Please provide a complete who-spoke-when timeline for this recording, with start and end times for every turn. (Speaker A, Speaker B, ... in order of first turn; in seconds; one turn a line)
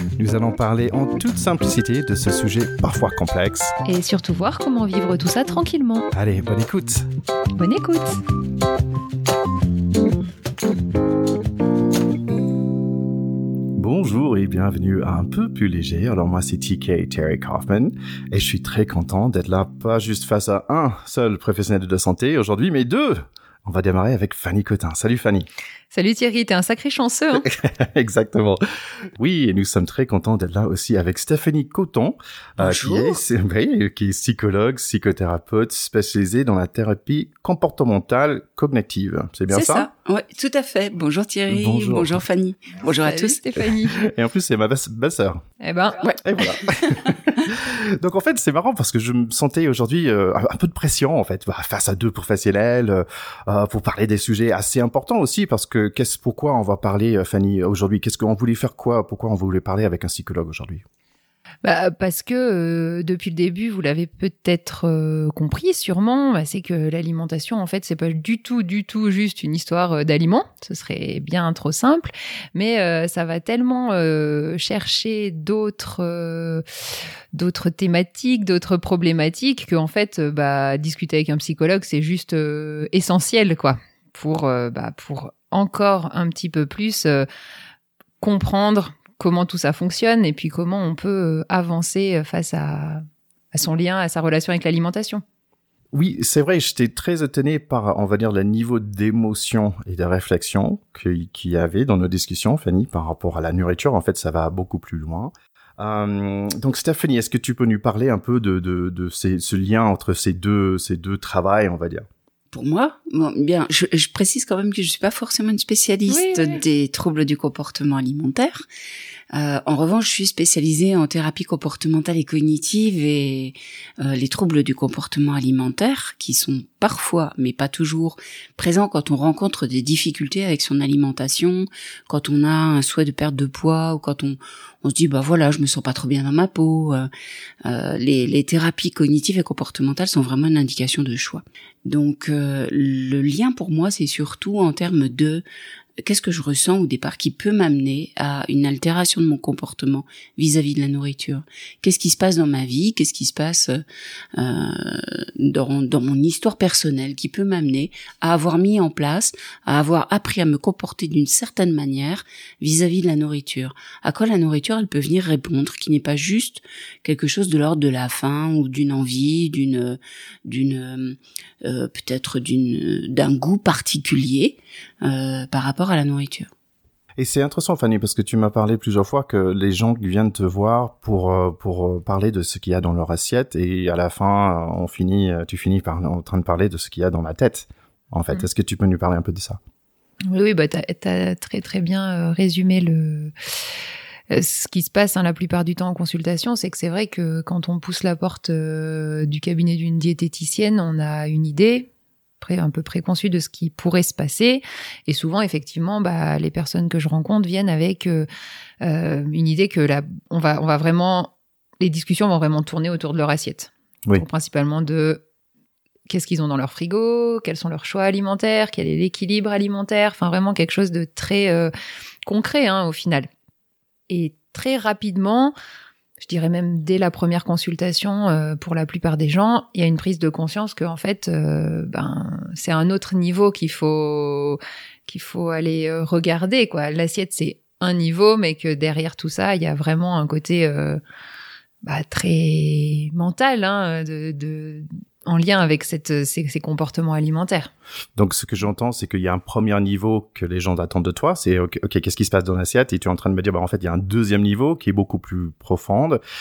Speaker A: 0.2-3.7
Speaker B: 3.9-6.1
Speaker A: 6.1-7.1
Speaker B: 7.5-8.2
Speaker A: 13.8-25.5
Speaker B: 25.9-27.4
Speaker A: 27.4-28.6
Speaker A: 29.2-39.9
Speaker C: 39.5-43.4
Speaker A: 41.5-42.2
Speaker B: 42.9-44.0
Speaker A: 43.9-45.4
Speaker B: 45.6-46.1
Speaker A: 46.2-60.8
Speaker B: 61.6-76.6
Speaker B: 77.3-87.2
Speaker B: 88.2-95.2
Speaker A: 95.9-112.0
Speaker C: 112.5-118.6
Speaker B: 116.1-116.6
Speaker C: 119.3-137.1
Speaker C: 137.6-145.4
Speaker C: 146.0-153.8
Speaker C: 154.3-176.5
Speaker A: 177.2-189.6
Speaker B: 190.3-193.3
Speaker B: 194.3-201.9
Speaker B: 202.4-208.3
Speaker B: 208.8-215.2
Speaker B: 216.1-221.7
Speaker B: 222.2-223.3
Speaker B: 224.1-225.5
Speaker B: 226.2-241.0
Speaker B: 241.8-247.7
Speaker A: 248.2-256.2